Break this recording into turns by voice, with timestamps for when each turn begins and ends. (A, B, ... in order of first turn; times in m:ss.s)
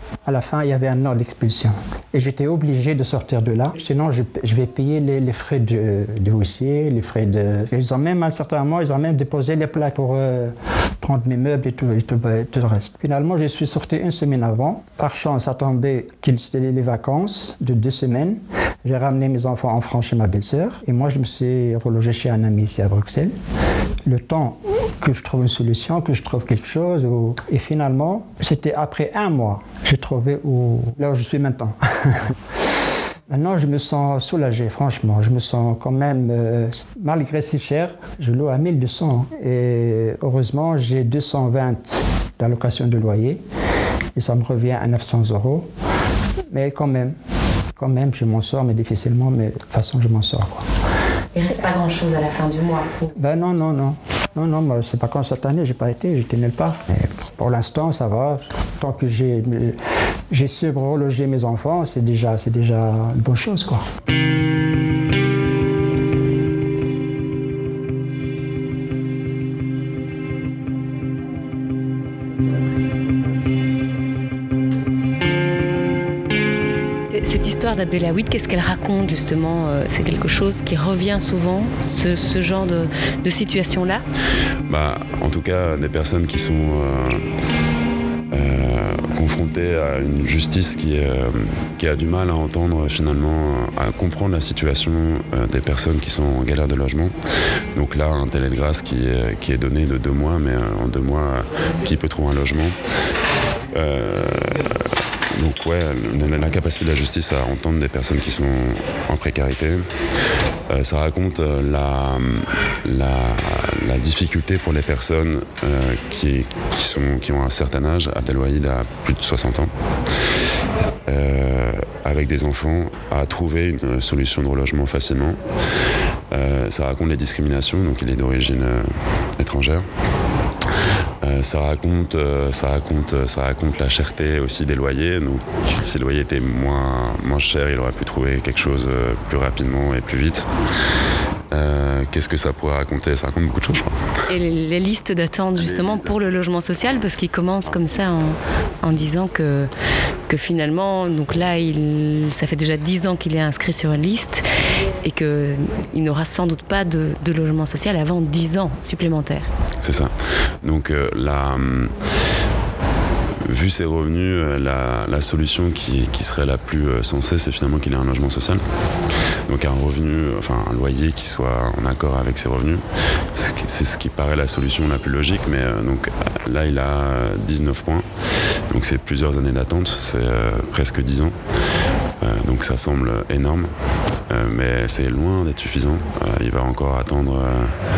0:00.2-0:23.3 A
0:24.0-0:32.3 A
0:33.3-0:43.4 A
0:44.2-0:45.7 A
0:46.5-0:47.1 A
0:47.8-0:50.6 A
0:51.3-0:53.1 B
0:53.1-0:59.8 A
1:00.3-1:03.8 A
1:17.1-1:24.0 B
1:24.7-1:27.2 C
1:28.3-1:37.1 C
1:37.7-1:42.8 C
1:43.7-1:44.8 C
1:45.3-1:49.8 C
1:50.7-1:59.7 C
2:01.0-2:05.4 C
2:06.3-2:09.8 C
2:11.2-2:20.5 C
2:21.5-2:24.0 C
2:24.3-2:29.7 B
2:25.6-2:26.3 C
2:30.3-2:34.4 B
2:35.0-2:39.5 B
2:39.8-2:40.1 C
2:40.6-2:41.9 C
2:43.4-2:48.6 C
2:49.5-2:52.8 C
2:53.3-2:58.0 C
2:58.7-3:01.3 C
3:02.2-3:03.7 C
3:04.3-3:07.7 C